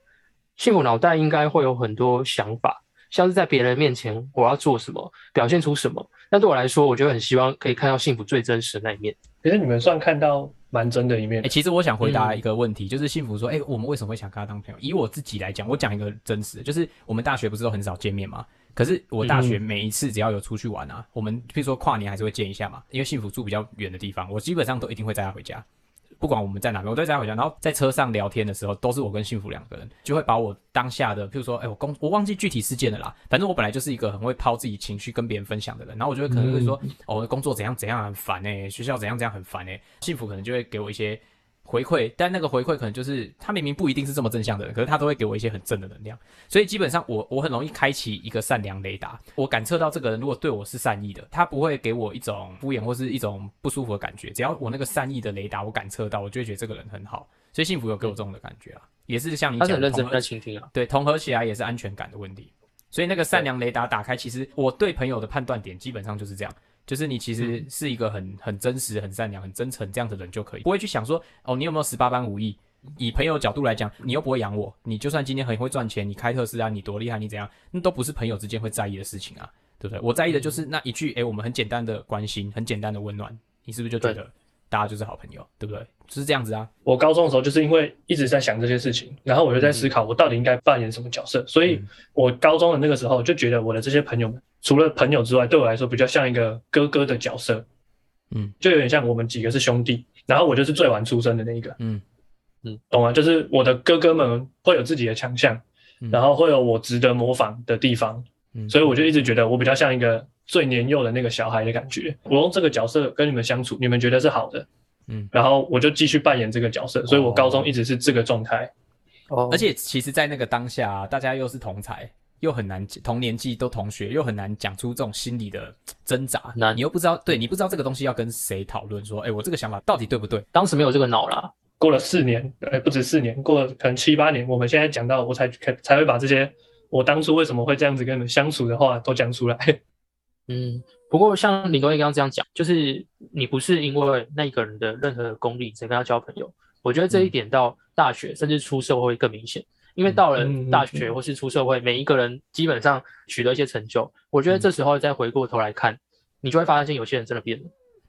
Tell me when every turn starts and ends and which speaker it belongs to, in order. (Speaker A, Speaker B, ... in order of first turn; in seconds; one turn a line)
Speaker A: 0.6-9.2
Speaker B: 9.4-11.5
Speaker C: 11.4-25.6
Speaker A: 12.0-12.4
Speaker B: 19.2-19.6
Speaker C: 26.2-60.2
Speaker B: 36.3-36.8
Speaker A: 59.6-60.7
Speaker C: 60.7-86.7
Speaker B: 86.8-97.6
Speaker B: 98.6-101.8
Speaker B: 102.9-114.7
Speaker B: 115.3-118.7
Speaker C: 117.0-117.7
Speaker A: 119.3-119.7
Speaker C: 119.5-130.4
Speaker A: 126.5-126.8
Speaker A: 130.5-131.5
Speaker B: 131.8-139.8
Speaker A: 140.5-157.7
Speaker B: 150.3-151.1